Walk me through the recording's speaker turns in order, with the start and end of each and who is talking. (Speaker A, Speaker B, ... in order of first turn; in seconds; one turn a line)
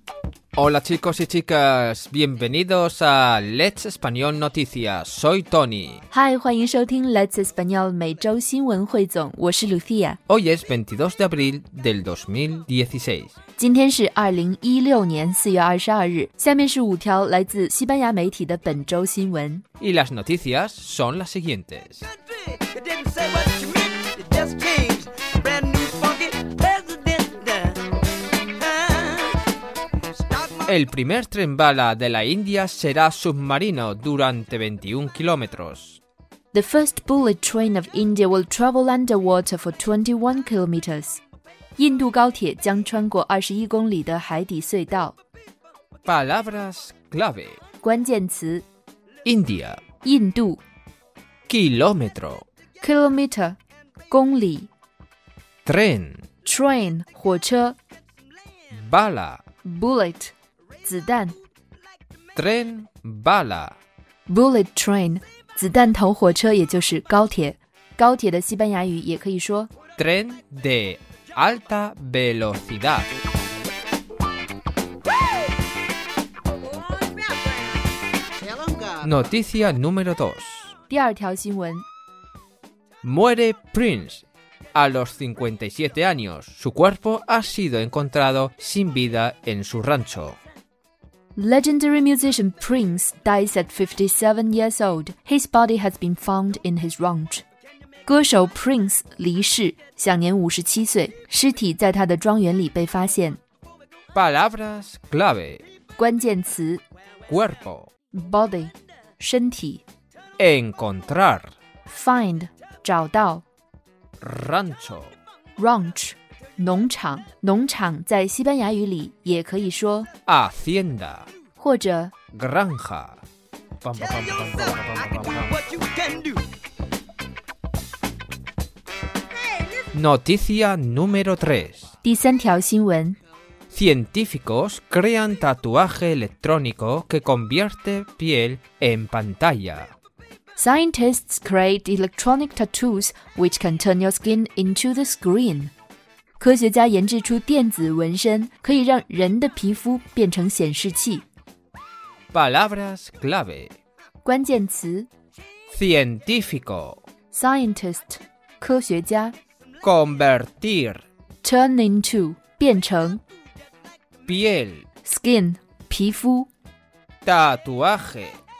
Speaker A: 0.5-6.0
Speaker B: 6.1-10.2
Speaker A: 10.3-13.3
Speaker B: 13.6-19.6
Speaker A: 19.8-22.1
Speaker C: 22.4-27.9
Speaker C: 28.4-29.4
Speaker C: 30.2-30.6
Speaker A: 30.6-36.0
Speaker B: 36.5-41.2
Speaker B: 41.8-45.2
Speaker A: 46.0-47.6
Speaker B: 47.8-48.6
Speaker A: 49.2-49.8
Speaker B: 50.0-50.6
Speaker A: 51.5-52.5
Speaker B: 52.8-54.7
Speaker A: 55.6-56.2
Speaker B: 56.4-57.8
Speaker A: 58.7-59.4
Speaker B: 59.6-61.4
Speaker A: 62.3-63.8
Speaker B: 64.3-69.7
Speaker A: 70.0-73.1
Speaker A: 79.0-80.8
Speaker B: 80.9-81.8
Speaker A: 83.0-90.4
Speaker B: 91.3-97.4
Speaker B: 98.0-103.4
Speaker A: 104.1-105.6
Speaker B: 106.0-106.8
Speaker A: 107.3-107.9
Speaker B: 108.1-109.8
Speaker A: 110.4-111.5
Speaker B: 111.9-113.4
Speaker A: 114.2-115.1
Speaker B: 115.6-120.1
Speaker A: 120.3-121.3
Speaker B: 121.6-122.1
Speaker A: 122.3-123.2
Speaker A: 123.8-125.6
Speaker C: 124.4-126.4
Speaker A: 129.9-131.9
Speaker B: 132.0-133.2
Speaker A: 133.7-139.9
Speaker B: 140.6-145.7
Speaker B: 146.4-151.2
Speaker A: 152.3-153.8
Speaker B: 154.2-155.1
Speaker A: 155.7-157.0
Speaker B: 157.3-159.3
Speaker A: 159.8-161.0
Speaker B: 161.4-163.2
Speaker A: 164.2-164.9
Speaker B: 165.0-166.5
Speaker A: 167.2-168.4